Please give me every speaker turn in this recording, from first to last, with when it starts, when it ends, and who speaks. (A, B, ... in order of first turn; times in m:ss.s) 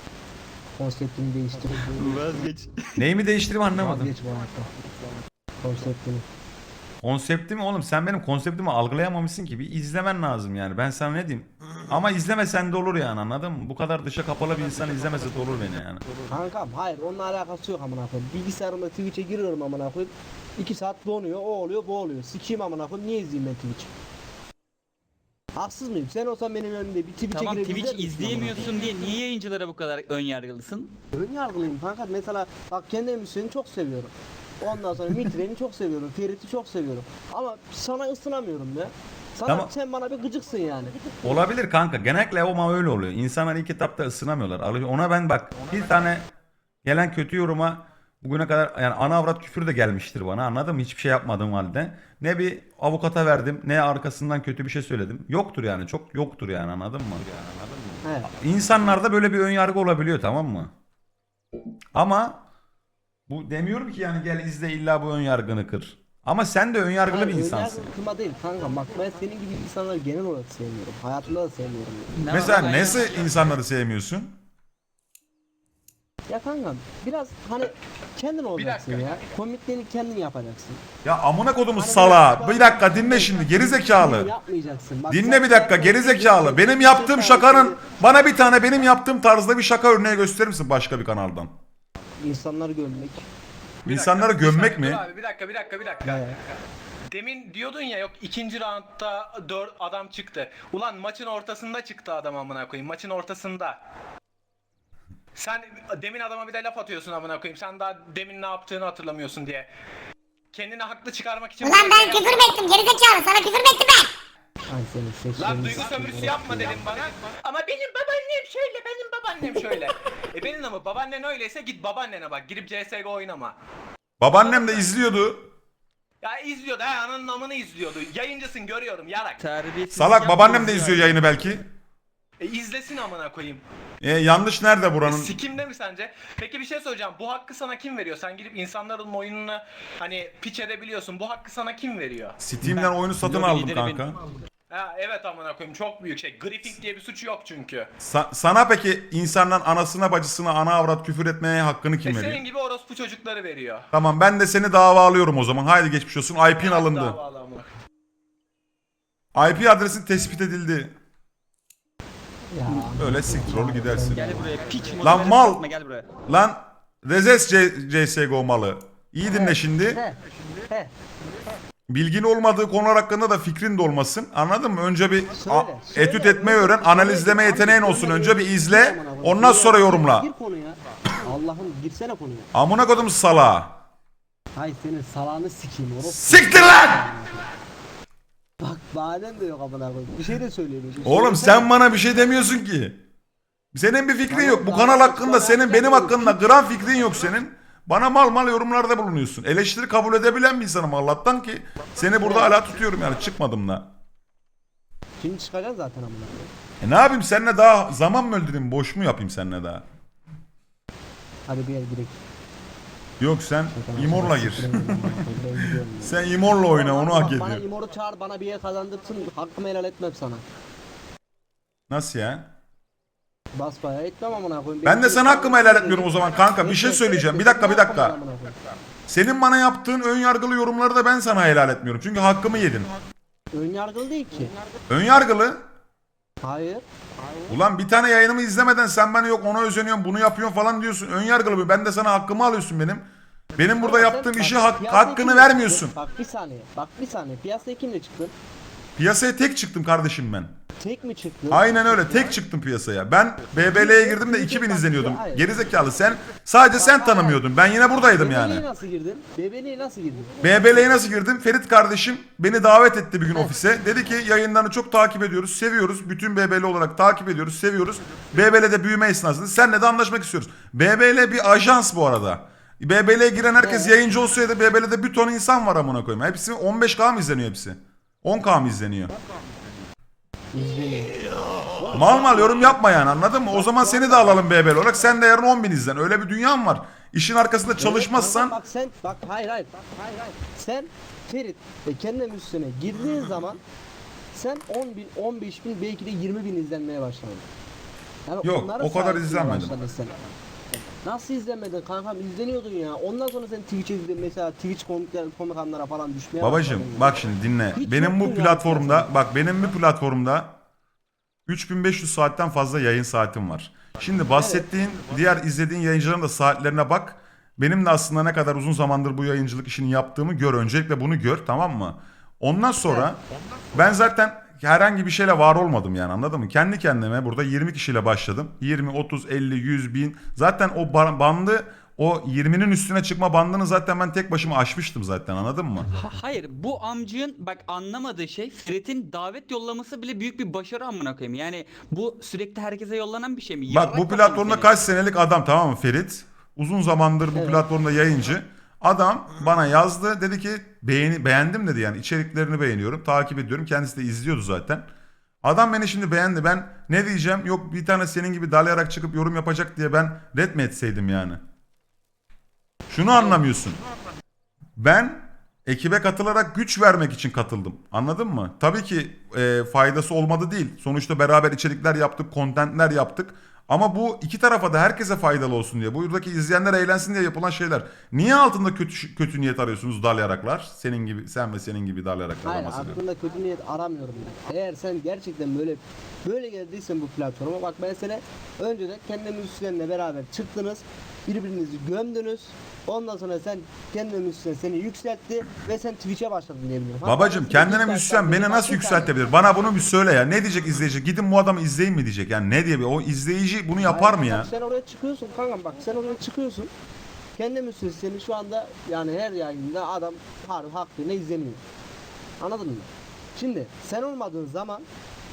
0:00.8-0:02.4 A
0:01.9-0:03.0 B
0:03.0-0:04.1 C
0:03.7-0:04.7 A
0:05.6-0:06.2 A
0:07.0-0:16.0 C
0:16.3-0:23.9 A
0:25.6-0:28.9 A
0:27.3-0:30.9 B
0:31.1-0:41.4 A
0:39.5-0:39.7 C
0:41.2-0:46.3 C
0:46.8-0:57.3 C
0:58.0-0:58.3 A
0:58.3-1:00.7 C
1:02.0-1:02.4 C
1:03.3-1:07.9 C
1:07.1-1:12.3 A
1:12.2-1:13.2 B
1:12.3-1:14.4 C
1:16.3-1:20.8 A
1:18.6-1:19.2 D
1:21.0-1:24.3 C
1:21.8-1:27.8 A
1:25.1-1:31.5 C
1:32.2-1:33.3 A
1:33.8-1:36.3 D
1:33.9-1:35.0 C
1:36.0-1:36.4 A
1:37.1-1:43.8 D
1:45.4-1:49.7 D
1:50.5-1:52.6 D
1:51.6-1:54.1 E
1:54.7-1:56.8 A
1:55.4-2:03.6 D
2:04.2-2:05.5 C
2:04.3-2:05.0 D
2:06.2-2:09.4 D
2:09.4-2:11.2 B
2:09.9-2:11.7 C
2:12.4-2:13.6 D
2:14.0-2:15.4 C
2:15.0-2:22.4 D
2:22.4-2:24.2 C
2:22.6-2:24.1 B
2:24.7-2:27.9 D
2:28.0-2:32.4 C
2:32.0-2:33.9 D
2:33.9-2:37.2 C
2:36.6-2:37.7 D
2:39.4-2:40.9 C
2:42.5-2:44.5 A
2:42.7-2:43.0 B
2:43.0-2:44.3 C
2:44.1-2:46.1 B
2:45.0-2:45.6 C
2:46.3-2:50.0 C
2:49.3-2:50.2 A
2:51.9-3:00.3 C
2:55.4-3:02.5 A
3:02.5-3:03.8 C
3:04.6-3:07.4 A
3:06.0-3:07.1 C
3:08.6-3:11.7 A
3:11.0-3:13.0 C
3:13.7-3:23.9 C
3:14.3-3:16.4 A
3:22.2-3:22.5 A
3:25.2-3:26.5 A
3:26.8-3:29.9 C
3:31.5-3:32.2 A
3:33.2-3:35.0 C
3:33.7-3:40.4 A
3:36.0-3:37.6 C
3:41.9-3:42.5 C
3:43.5-3:48.6 A
3:44.8-3:48.2 C
3:49.1-3:52.9 C
3:53.5-3:54.5 A
3:54.9-3:55.6 C
3:56.4-3:56.8 A
3:57.5-4:06.0 C
4:03.8-4:08.3 A
4:09.0-4:10.5 C
4:10.8-4:12.3 A
4:11.5-4:18.7 C
4:13.6-4:15.5 A
4:16.8-4:17.4 A
4:18.0-4:20.4 A
4:20.4-4:39.1 C
4:23.3-4:23.6 A
4:33.6-4:34.0 A
4:40.5-4:41.2 A
4:41.8-4:42.7 A
4:41.9-4:48.6 C
4:43.5-4:44.4 A
4:47.8-4:49.7 A
4:50.6-4:53.6 A
4:54.3-4:57.5 A
4:58.3-5:00.2 A
4:58.4-4:59.7 C
5:01.0-5:07.2 A
5:06.4-5:10.6 C
5:07.8-5:09.1 A
5:11.5-5:23.2 C
5:14.3-5:14.6 A
5:23.7-5:35.9 C
5:35.9-5:44.9 B
5:43.7-5:54.9 C
5:47.3-5:47.7 A
5:55.4-6:01.4 C
6:02.9-6:03.8 C
6:04.8-6:23.0 C
6:22.4-6:39.1 A
6:37.0-6:44.5 C
6:43.8-6:46.7 A
6:47.4-6:51.6 A
6:52.4-6:54.8 A